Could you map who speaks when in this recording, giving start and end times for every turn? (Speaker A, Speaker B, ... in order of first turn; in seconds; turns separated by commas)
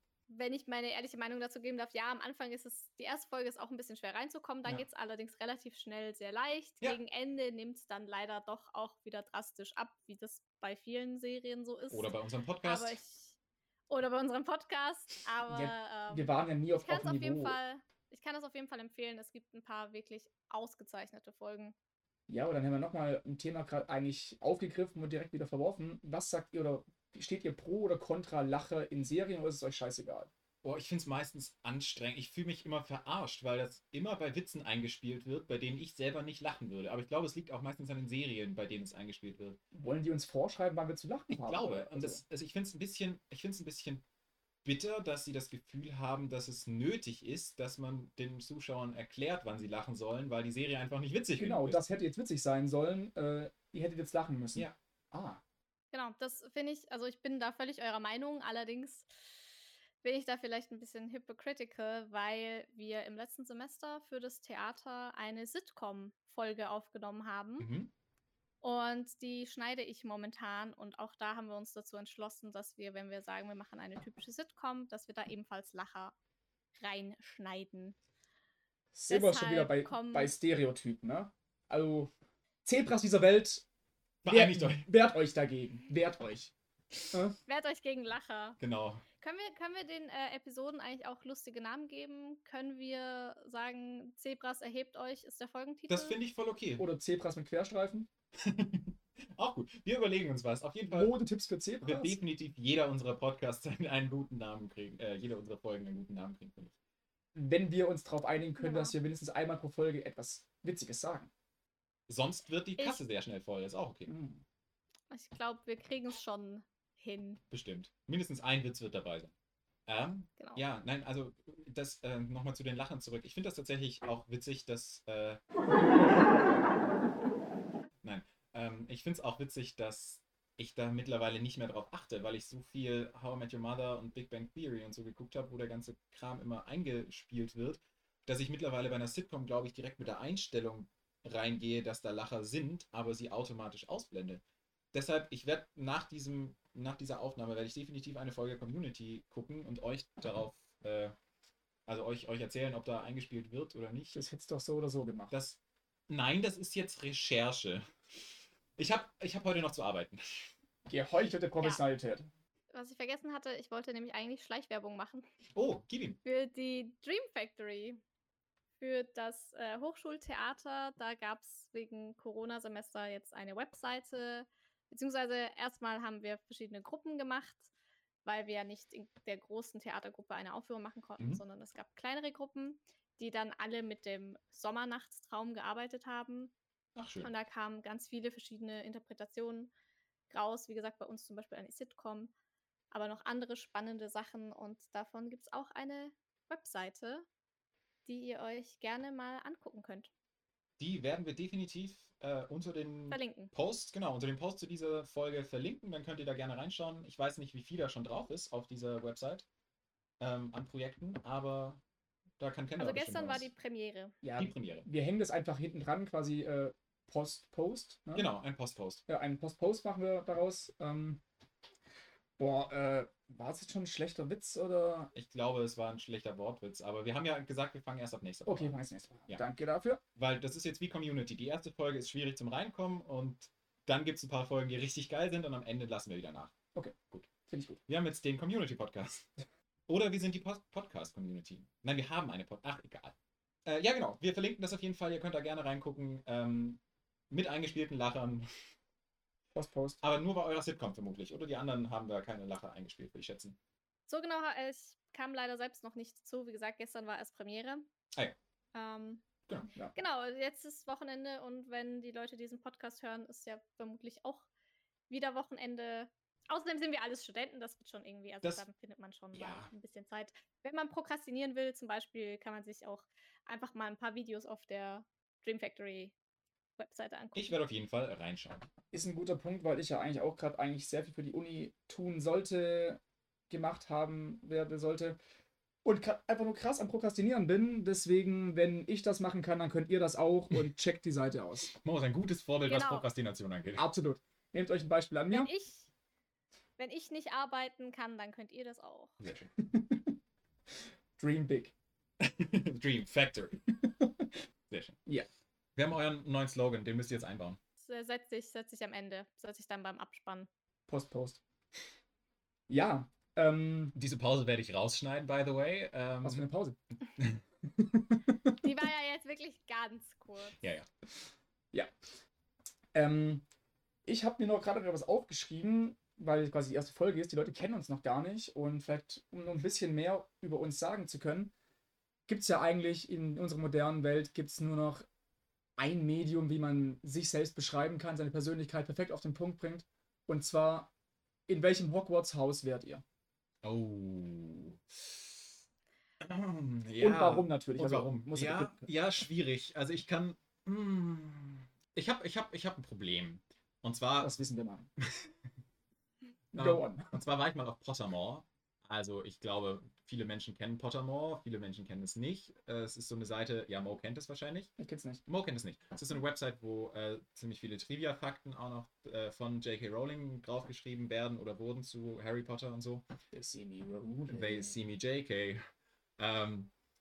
Speaker A: 0.3-13.4, Speaker B: 11.9-13.0, Speaker A: 13.9-21.8, Speaker C: 15.5-17.6, Speaker C: 22.3-30.3, Speaker B: 30.6-39.6, Speaker C: 39.8-42.2, Speaker B: 41.4-44.0, Speaker B: 44.6-51.8, Speaker C: 51.4-55.4, Speaker A: 55.9-59.4, Speaker A: 60.0-67.7, Speaker B: 67.6-67.9, Speaker A: 68.6-76.2, Speaker A: 76.8-78.0, Speaker C: 79.0-82.1, Speaker A: 79.1-80.3, Speaker C: 82.7-83.7, Speaker B: 84.2-84.9, Speaker C: 84.3-86.5, Speaker C: 87.1-87.4, Speaker A: 87.5-88.6, Speaker B: 88.6-89.0, Speaker A: 89.2-96.2, Speaker B: 95.9-96.9, Speaker C: 96.8-98.1, Speaker B: 98.4-101.1, Speaker C: 100.9-102.2, Speaker B: 101.8-106.7, Speaker C: 107.3-111.3, Speaker A: 108.6-108.9, Speaker B: 112.1-114.1, Speaker C: 114.1-114.4, Speaker A: 115.1-117.4, Speaker B: 117.5-119.3, Speaker B: 119.9-126.2, Speaker A: 120.4-120.6, Speaker B: 128.0-144.4, Speaker B: 144.9-151.2, Speaker B: 151.9-154.2, Speaker C: 154.1-155.3, Speaker B: 155.3-157.9, Speaker B: 158.8-160.5, Speaker C: 160.9-162.3, Speaker A: 162.7-165.3, Speaker B: 165.6-166.2, Speaker A: 166.2-168.0, Speaker A: 168.8-177.7, Speaker A: 178.2-186.5, Speaker B: 187.0-187.3, Speaker A: 187.2-189.7, Speaker A: 190.3-192.3, Speaker A: 192.9-197.3, Speaker A: 198.1-200.1, Speaker B: 200.8-209.5, Speaker A: 203.1-203.5, Speaker B: 210.2-211.8, Speaker B: 212.4-213.5, Speaker A: 212.8-214.2, Speaker C: 214.2-218.3, Speaker B: 214.4-214.9, Speaker B: 218.2-219.0, Speaker C: 219.1-221.2, Speaker C: 222.4-225.1, Speaker B: 225.2-228.7, Speaker C: 228.5-230.0, Speaker B: 230.2-236.5, Speaker C: 236.8-237.8, Speaker B: 237.9-239.3, Speaker B: 239.9-243.2, Speaker B: 243.7-248.5, Speaker C: 249.6-250.0, Speaker B: 250.0-253.6, Speaker A: 254.1-257.9, Speaker A: 258.7-259.2, Speaker A: 259.9-264.5, Speaker A: 265.1-276.1, Speaker B: 269.3-269.7, Speaker A: 276.8-277.6, Speaker B: 277.4-278.7, Speaker C: 278.9-285.2, Speaker C: 285.8-291.8, Speaker B: 291.8-293.9, Speaker A: 292.7-293.1, Speaker C: 293.8-295.5, Speaker A: 295.3-295.9, Speaker A: 296.8-299.2, Speaker B: 299.2-299.5, Speaker C: 299.6-300.1, Speaker C: 301.2-301.7, Speaker B: 302.2-303.6, Speaker B: 304.7-305.0, Speaker B: 305.8-307.6, Speaker A: 307.8-310.5, Speaker C: 310.9-311.4, Speaker C: 312.7-314.0, Speaker B: 313.9-316.5, Speaker C: 316.2-316.8, Speaker A: 318.6-320.6, Speaker B: 320.6-320.9, Speaker C: 322.9-323.4, Speaker C: 324.1-331.5, Speaker C: 332.3-335.1, Speaker C: 335.8-340.9, Speaker C: 341.5-343.0, Speaker B: 343.6-345.5, Speaker B: 346.2-354.4, Speaker C: 347.0-348.9, Speaker C: 354.2-354.9, Speaker B: 355.0-355.3, Speaker C: 356.5-357.2, Speaker B: 356.5-364.7, Speaker C: 364.8-365.2, Speaker B: 365.3-373.1, Speaker C: 373.3-374.8, Speaker B: 374.3-375.6, Speaker B: 376.2-376.7